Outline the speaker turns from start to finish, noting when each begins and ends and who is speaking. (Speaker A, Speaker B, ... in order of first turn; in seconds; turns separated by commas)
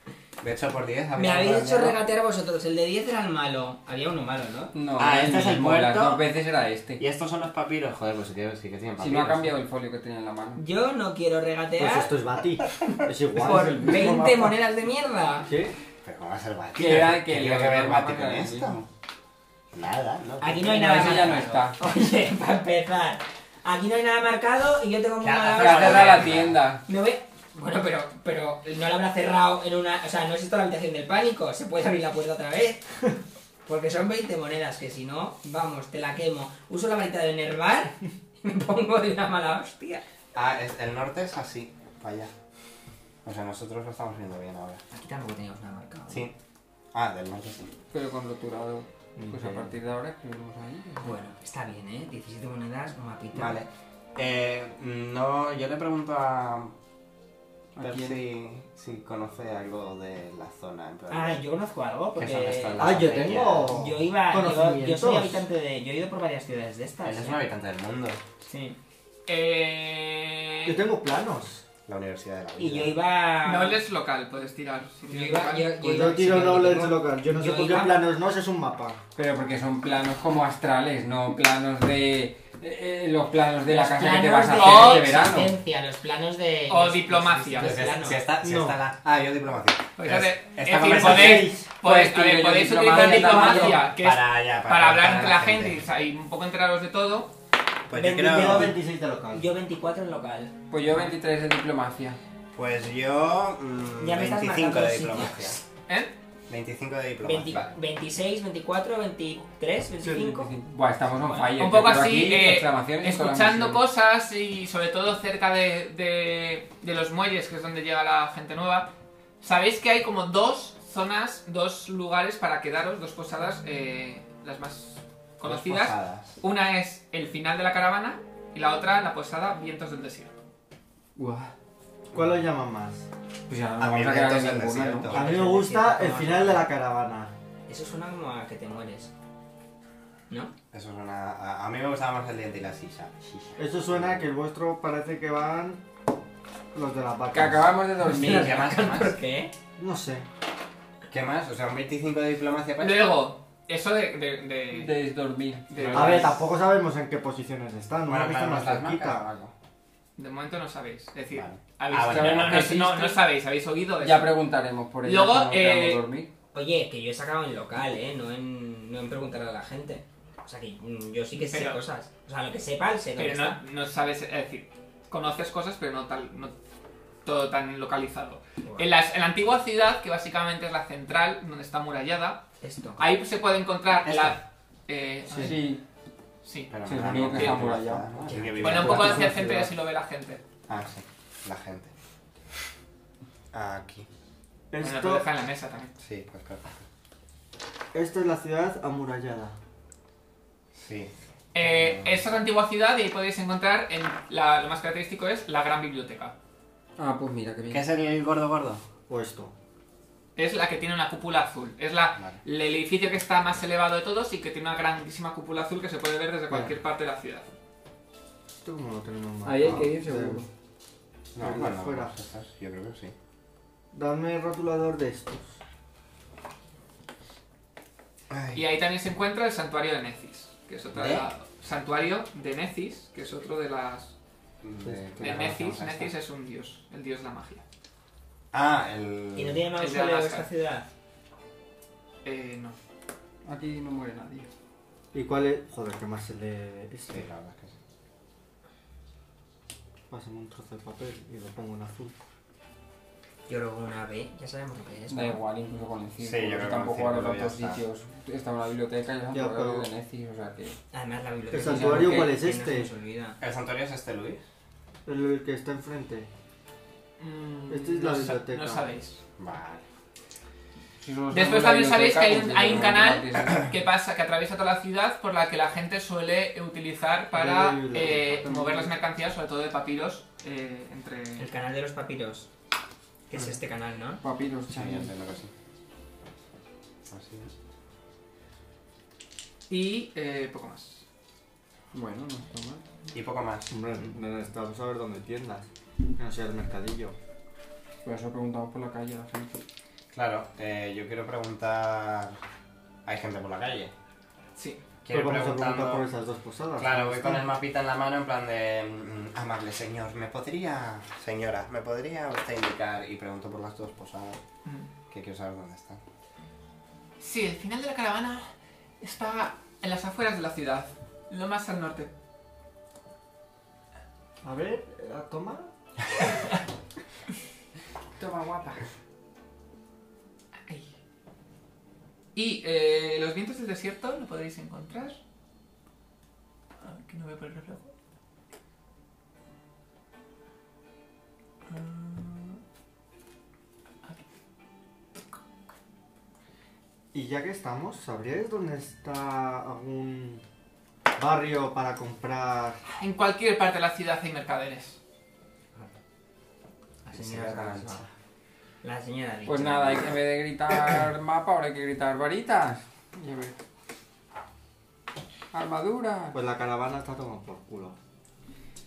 Speaker A: 0.4-2.0, Speaker B: 1.1-4.7, Speaker C: 4.7-7.0, Speaker A: 5.0-6.2, Speaker A: 7.0-9.5, Speaker C: 9.0-10.6, Speaker B: 10.6-12.1, Speaker D: 11.8-14.5, Speaker B: 13.3-15.5, Speaker C: 13.4-14.3, Speaker D: 15.4-15.7, Speaker A: 16.0-18.9, Speaker C: 16.8-18.8, Speaker A: 19.7-21.1, Speaker B: 20.4-33.1, Speaker C: 20.6-21.9, Speaker A: 25.2-26.6, Speaker C: 25.6-26.8, Speaker B: 33.6-40.0, Speaker A: 40.3-42.3, Speaker A: 43.2-44.8, Speaker B: 44.9-46.3, Speaker A: 46.9-47.7, Speaker C: 47.9-51.1, Speaker D: 49.1-49.6, Speaker B: 51.0-53.6, Speaker A: 53.3-56.7, Speaker C: 57.8-58.2, Speaker A: 57.8-61.4, Speaker B: 61.1-67.4, Speaker A: 62.1-63.8, Speaker D: 62.8-65.5, Speaker A: 67.0-68.2, Speaker B: 68.4-68.8, Speaker E: 69.3-70.8, Speaker D: 70.6-71.6, Speaker A: 71.8-73.0, Speaker B: 72.6-73.8, Speaker E: 73.4-75.7, Speaker B: 75.0-78.0, Speaker D: 75.8-79.0, Speaker C: 79.2-85.5, Speaker B: 83.6-88.2, Speaker E: 84.5-85.1, Speaker E: 86.7-87.8, Speaker A: 87.6-91.5, Speaker D: 88.4-88.8, Speaker E: 90.0-97.3, Speaker D: 90.8-91.7, Speaker C: 91.8-93.8, Speaker B: 93.0-93.7, Speaker A: 93.9-95.8, Speaker A: 97.9-98.8, Speaker B: 97.9-100.5, Speaker D: 98.2-99.5, Speaker C: 100.7-102.2, Speaker A: 102.5-105.6, Speaker B: 104.0-105.6, Speaker A: 106.5-107.7, Speaker B: 107.2-110.5, Speaker C: 110.0-113.8, Speaker E: 111.5-130.3, Speaker A: 125.4-126.4, Speaker C: 131.2-131.5, Speaker D: 132.1-133.1, Speaker C: 133.5-135.1, Speaker A: 133.8-135.3, Speaker B: 135.1-136.7, Speaker D: 135.1-137.3, Speaker B: 137.7-139.1, Speaker A: 140.7-144.2, Speaker D: 143.6-145.8, Speaker D: 146.7-147.7, Speaker C: 147.3-148.9, Speaker B: 148.0-149.5, Speaker A: 148.1-149.1, Speaker D: 149.8-150.2, Speaker A: 151.1-153.1, Speaker E: 152.8-154.9, Speaker C: 154.7-156.4, Speaker E: 155.7-156.4, Speaker D: 155.9-159.2, Speaker A: 158.1-159.5, Speaker E: 160.2-164.4, Speaker A: 161.3-162.7, Speaker C: 162.0-163.2, Speaker C: 164.0-166.3, Speaker E: 165.0-166.0, Speaker B: 166.5-173.6, Speaker E: 171.3-171.8, Speaker E: 173.2-176.5, Speaker E: 177.2-182.4, Speaker B: 182.6-183.0, Speaker E: 183.0-185.6, Speaker A: 184.0-184.4, Speaker D: 185.3-185.6, Speaker C: 185.3-185.8, Speaker E: 186.4-186.7, Speaker A: 186.7-189.4, Speaker C: 186.8-188.4, Speaker B: 188.3-188.7, Speaker D: 188.6-189.7, Speaker E: 188.6-190.4, Speaker A: 190.7-191.9, Speaker A: 193.5-194.1, Speaker D: 194.7-195.2, Speaker E: 194.8-195.9, Speaker A: 196.0-196.7, Speaker D: 197.9-199.6, Speaker A: 200.7-202.3, Speaker E: 201.5-206.3, Speaker C: 207.0-207.8, Speaker A: 207.7-208.8, Speaker D: 209.1-209.5, Speaker E: 210.3-217.5, Speaker D: 218.6-220.4, Speaker C: 219.4-220.5, Speaker A: 221.3-223.1, Speaker D: 221.3-222.1, Speaker D: 223.9-225.5, Speaker A: 228.3-228.6, Speaker E: 228.5-234.1, Speaker A: 230.9-231.3, Speaker A: 234.6-236.1, Speaker D: 234.8-235.4, Speaker E: 235.2-237.6, Speaker A: 238.5-239.7, Speaker B: 239.3-240.9, Speaker E: 239.8-240.5, Speaker E: 242.2-242.8, Speaker C: 243.4-244.5, Speaker D: 245.1-247.2, Speaker A: 247.1-247.7, Speaker D: 250.1-252.2, Speaker B: 253.5-255.4, Speaker C: 255.1-260.8, Speaker A: 256.2-257.8, Speaker D: 259.3-259.9, Speaker B: 260.9-263.4, Speaker D: 261.5-262.9, Speaker C: 261.6-262.4, Speaker A: 263.4-264.4, Speaker D: 265.1-266.3, Speaker E: 267.2-269.2, Speaker D: 267.7-268.8, Speaker A: 269.4-269.8, Speaker C: 271.0-273.7, Speaker E: 271.3-281.5, Speaker D: 277.3-278.9, Speaker B: 281.4-282.5, Speaker B: 283.3-284.2, Speaker C: 284.2-285.1, Speaker A: 284.7-285.5, Speaker A: 287.1-287.5, Speaker E: 289.7-291.0, Speaker C: 291.9-293.1, Speaker A: 293.1-293.7, Speaker D: 293.7-297.1, Speaker C: 298.0-299.6, Speaker A: 300.1-302.4, Speaker A: 303.1-303.9, Speaker E: 304.6-304.8, Speaker A: 305.0-306.1, Speaker D: 305.1-307.5, Speaker A: 306.8-314.4, Speaker A: 315.1-316.0, Speaker E: 317.2-318.5, Speaker E: 319.0-322.1, Speaker D: 324.4-325.7, Speaker C: 328.2-328.8, Speaker E: 332.3-335.2, Speaker E: 336.8-337.9, Speaker E: 341.7-342.6, Speaker D: 347.1-350.4, Speaker D: 351.1-352.8, Speaker E: 352.9-355.0, Speaker B: 357.0-358.1, Speaker A: 357.1-358.0, Speaker B: 358.8-360.1, Speaker C: 359.4-363.6, Speaker C: 365.5-366.4, Speaker D: 366.3-367.9